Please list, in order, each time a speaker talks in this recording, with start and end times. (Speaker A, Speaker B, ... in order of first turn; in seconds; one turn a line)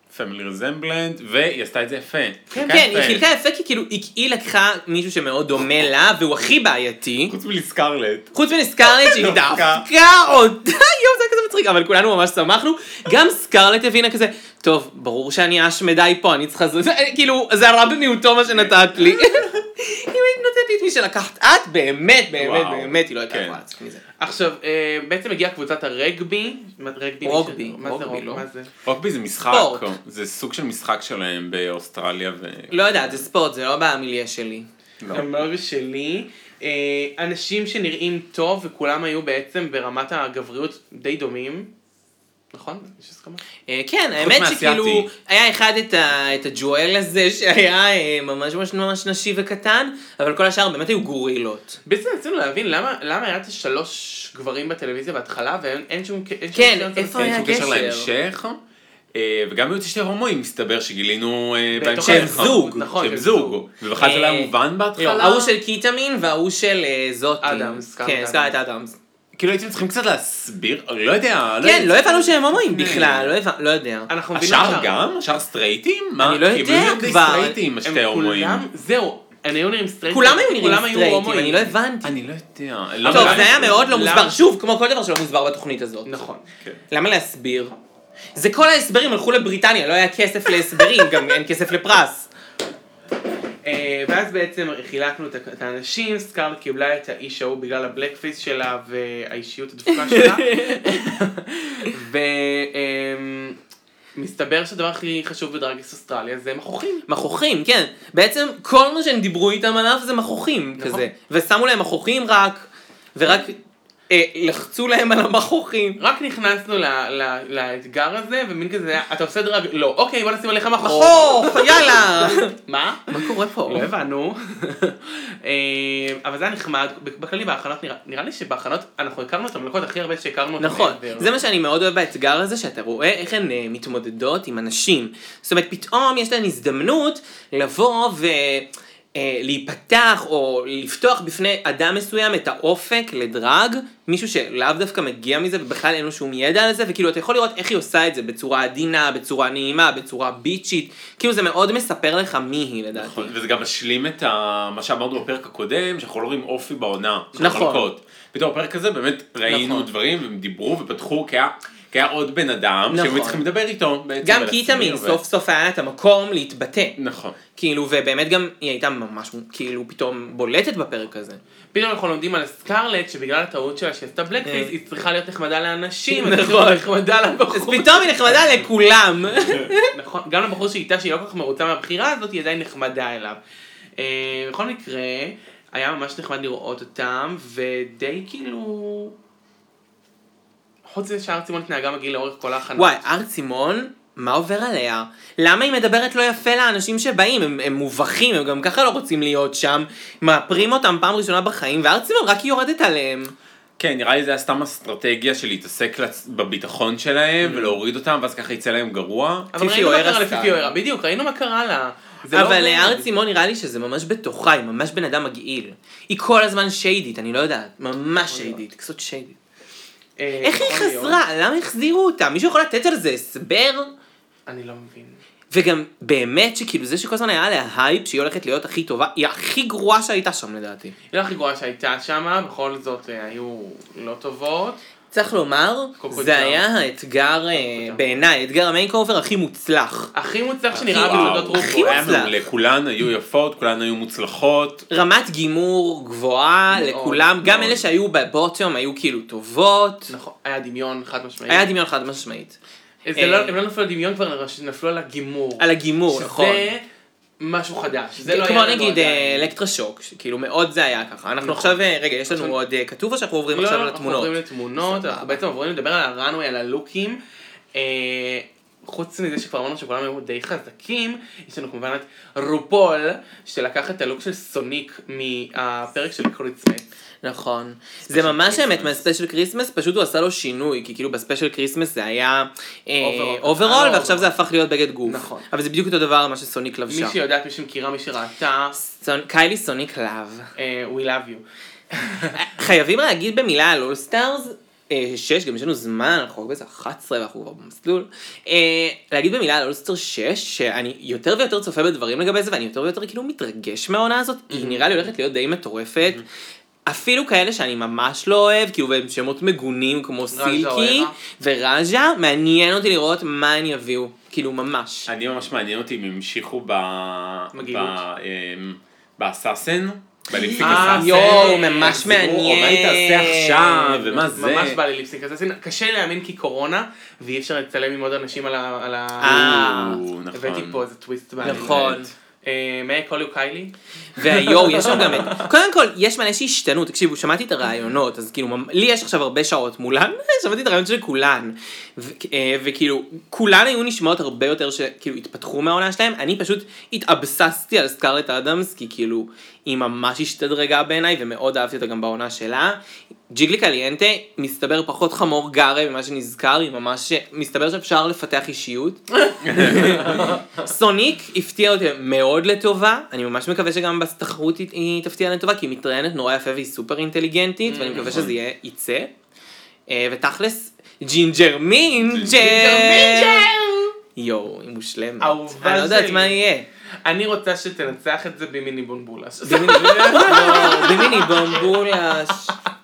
Speaker A: 0.1-3.2
Speaker B: 2.5-2.9
Speaker C: 2.6-7.3
Speaker A: 7.3-9.8
Speaker C: 8.3-24.0
Speaker A: 18.5-19.4
Speaker A: 22.4-23.6
Speaker B: 24.2-28.7
Speaker C: 27.2-28.4
Speaker A: 28.9-33.2
Speaker C: 29.5-29.9
Speaker C: 32.7-34.7
Speaker A: 35.0-35.3
Speaker B: 35.1-41.7
Speaker B: 42.5-43.4
Speaker C: 43.7-51.8
Speaker A: 44.2-45.1
Speaker B: 51.9-57.7
Speaker C: 56.5-58.1
Speaker A: 57.1-58.6
Speaker A: 59.1-65.5
Speaker B: 61.7-63.6
Speaker C: 62.0-62.9
Speaker C: 64.0-69.0
Speaker B: 65.0-65.5
Speaker B: 67.4-68.6
Speaker A: 69.3-73.3
Speaker C: 71.6-74.8
Speaker B: 74.1-75.0
Speaker A: 74.3-78.7
Speaker C: 76.2-77.6
Speaker B: 77.8-81.8
Speaker C: 80.1-82.2
Speaker A: 82.0-83.9
Speaker B: 83.0-84.4
Speaker C: 83.1-86.1
Speaker B: 86.1-86.4
Speaker C: 86.9-87.7
Speaker C: 88.3-92.3
Speaker B: 93.7-103.6
Speaker C: 99.9-101.0
Speaker B: 104.2-107.1
Speaker C: 107.1-113.6
Speaker B: 110.8-111.1
Speaker C: 114.1-116.0
Speaker B: 116.0-131.4
Speaker C: 120.8-122.5
Speaker C: 123.1-123.9
Speaker C: 130.6-153.3
Speaker A: 153.0-165.2
Speaker B: 157.4-157.7
Speaker C: 157.4-157.9
Speaker C: 159.5-159.9
Speaker C: 162.9-163.4
Speaker C: 164.2-167.0
Speaker A: 167.0-167.4
Speaker C: 167.6-171.4
Speaker B: 171.7-178.2
Speaker C: 174.4-174.7
Speaker C: 176.1-176.9
Speaker C: 177.5-179.9
Speaker B: 179.9-183.4
Speaker B: 184.0-189.1
Speaker B: 190.9-193.0
Speaker C: 192.8-203.3
Speaker A: 203.8-209.5
Speaker B: 209.5-213.1
Speaker C: 209.6-210.7
Speaker C: 212.3-219.4
Speaker B: 218.2-218.6
Speaker B: 220.2-221.2
Speaker C: 220.4-223.9
Speaker B: 224.5-225.2
Speaker C: 225.5-230.9
Speaker B: 231.1-234.8
Speaker C: 235.1-240.1
Speaker B: 236.0-236.6
Speaker B: 237.5-238.2
Speaker B: 240.1-242.1
Speaker C: 240.7-242.4
Speaker A: 240.7-244.9
Speaker C: 244.9-250.1
Speaker B: 246.7-247.3
Speaker A: 247.4-247.8
Speaker B: 250.1-251.7
Speaker C: 251.5-252.6
Speaker B: 253.1-256.9
Speaker C: 253.2-253.6
Speaker C: 255.6-256.7
Speaker B: 257.4-259.5
Speaker C: 258.2-265.4
Speaker B: 261.4-262.6
Speaker B: 263.5-267.2
Speaker B: 267.7-276.9
Speaker C: 277.2-287.1
Speaker A: 278.1-279.0
Speaker B: 283.0-284.3
Speaker B: 285.1-285.5
Speaker B: 286.9-288.8
Speaker C: 288.8-290.5
Speaker B: 290.6-292.4
Speaker C: 292.3-306.2
Speaker B: 304.5-305.1
Speaker C: 306.9-315.1
Speaker B: 310.3-311.2
Speaker A: 315.1-324.8
Speaker B: 317.5-318.0
Speaker C: 320.3-324.2
Speaker B: 320.6-322.2
Speaker B: 324.3-329.8
Speaker C: 329.2-330.0
Speaker A: 329.2-330.8
Speaker B: 330.3-335.5
Speaker A: 331.4-332.1
Speaker C: 331.4-332.1
Speaker C: 334.2-369.1
Speaker B: 359.3-360.3
Speaker A: 359.4-360.4
Speaker B: 367.6-368.1
Speaker A: 368.0-368.4
Speaker C: 369.9-373.5
Speaker A: 371.9-372.4
Speaker B: 372.3-373.9
Speaker C: 374.1-376.7
Speaker B: 375.2-376.4
Speaker B: 377.1-381.7
Speaker C: 379.4-382.6
Speaker A: 379.7-381.0